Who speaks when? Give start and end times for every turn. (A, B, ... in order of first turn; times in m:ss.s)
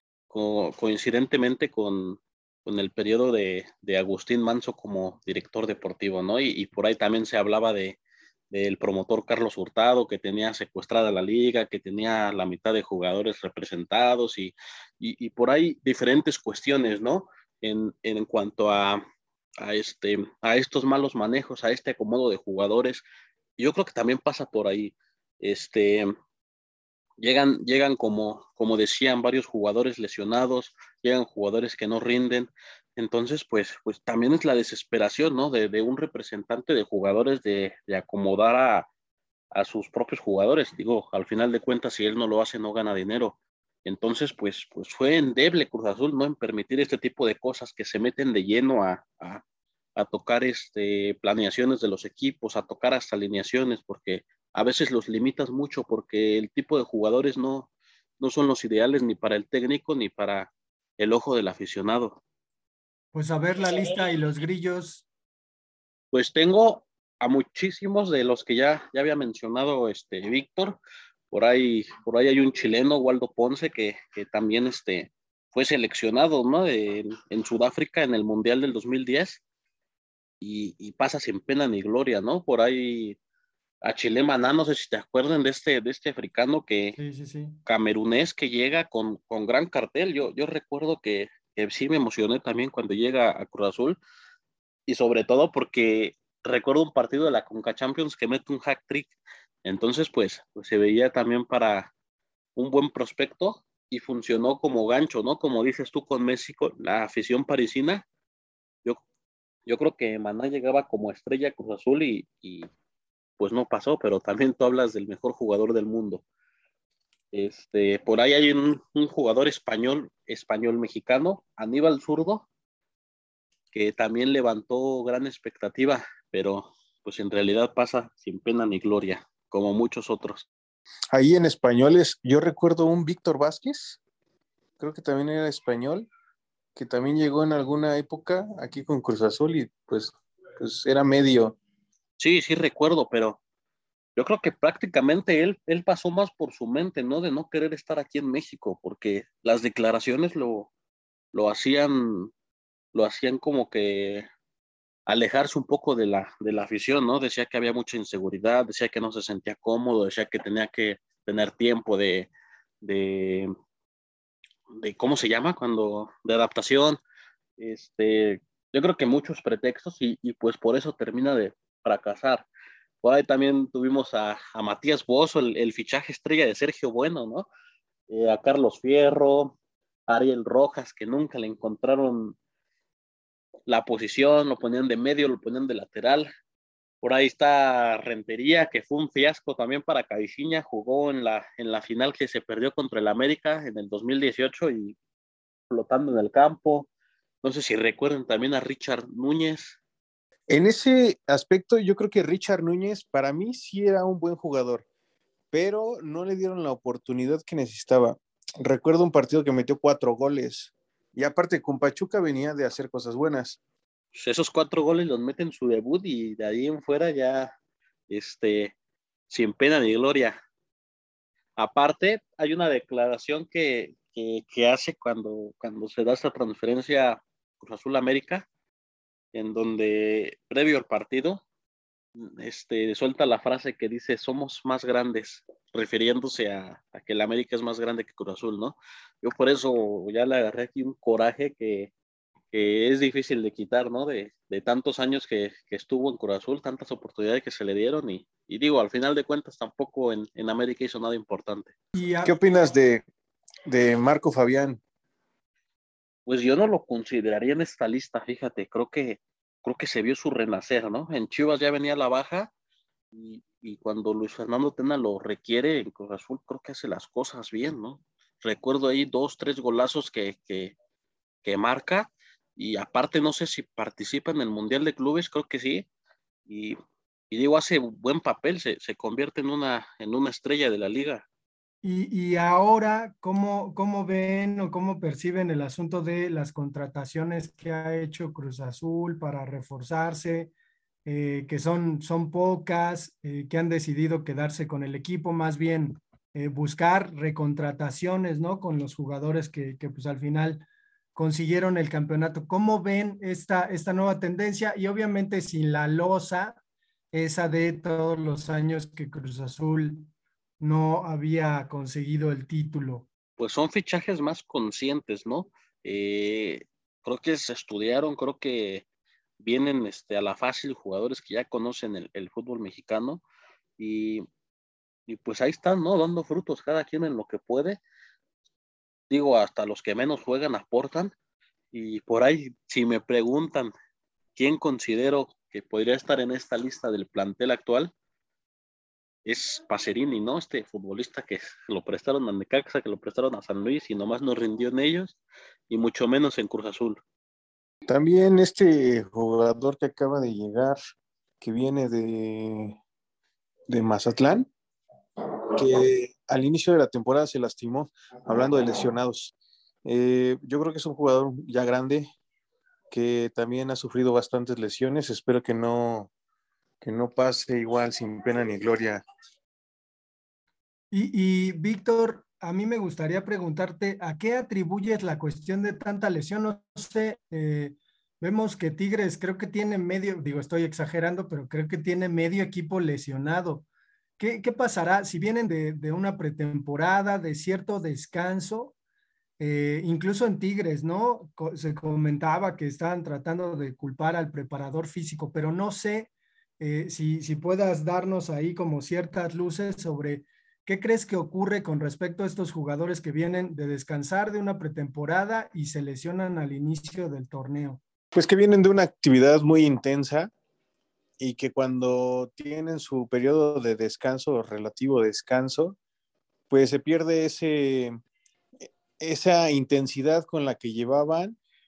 0:00.3-0:08.0 A
0:08.5-0:19.0 A
0:19.6-0:23.0 A
0:23.6-0:26.1 A
0:27.2-0:38.9 A
0:39.5-0:49.4 A
0:50.0-1:02.2 A
1:03.1-1:05.0 B
1:06.1-1:10.8 A
1:11.3-1:19.4 A
1:20.4-1:23.2 A
1:23.8-1:27.0 A
1:27.0-1:27.6 B
1:27.6-1:34.0 A
1:34.9-1:39.1 A
1:39.6-1:41.9 A
1:42.6-1:48.0 A
1:49.6-1:52.7 A
1:53.4-1:56.2 A
1:57.3-2:02.5 A
2:03.7-2:10.4 A
2:11.1-2:14.0 C
2:14.8-2:16.1 C
2:16.7-2:21.6 C
2:22.2-2:23.4 A
2:24.2-2:30.7 A
2:31.3-2:32.3 A
2:32.9-2:34.2 A
2:35.0-2:42.3 A
2:42.8-2:43.5 A
2:44.8-2:47.0 A
2:47.6-2:52.4 A
2:53.0-2:57.5 A
2:58.1-2:59.5 A
3:00.1-3:02.4 A
3:03.7-3:06.3 A
3:07.0-3:15.0 A
3:15.7-3:16.9 A
3:17.4-3:19.8 A
3:20.5-3:24.8 C
3:25.5-3:33.6 C
3:34.1-3:37.5 A
3:38.1-3:38.7 A
3:39.3-3:40.4 A
3:41.6-3:48.4 A
3:49.3-3:51.4 A
3:52.1-4:01.9 A
4:02.5-4:11.7 A
4:11.9-4:12.3 B
4:12.2-4:13.0 C
4:13.7-4:14.8 C
4:16.2-4:22.5 A
4:23.1-4:30.7 A
4:31.4-4:35.8 A
4:36.5-4:36.8 A
4:37.3-4:41.2 A
4:41.8-4:50.5 B
4:51.0-5:06.6 B
5:07.1-5:13.1 B
5:13.4-5:18.8 A
5:19.4-5:23.2 A
5:23.8-5:24.2 A
5:25.1-5:27.8 A
5:29.1-5:31.1 A
5:31.7-5:33.7 A
5:34.4-5:37.9 A
5:39.2-5:45.2 A
5:45.7-5:47.0 A
5:47.8-5:50.8 C
5:51.4-5:52.8 C
5:53.7-5:54.5 C
5:55.5-5:59.3 C
5:59.8-6:02.1 C
6:02.9-6:06.1 C
6:06.8-6:09.0 C
6:10.9-6:23.6 B
6:24.2-6:28.7 B
6:29.4-6:47.8 B
6:48.1-6:50.3 C
6:51.2-6:55.8 C
6:56.5-6:58.0 C
6:59.0-7:01.4 C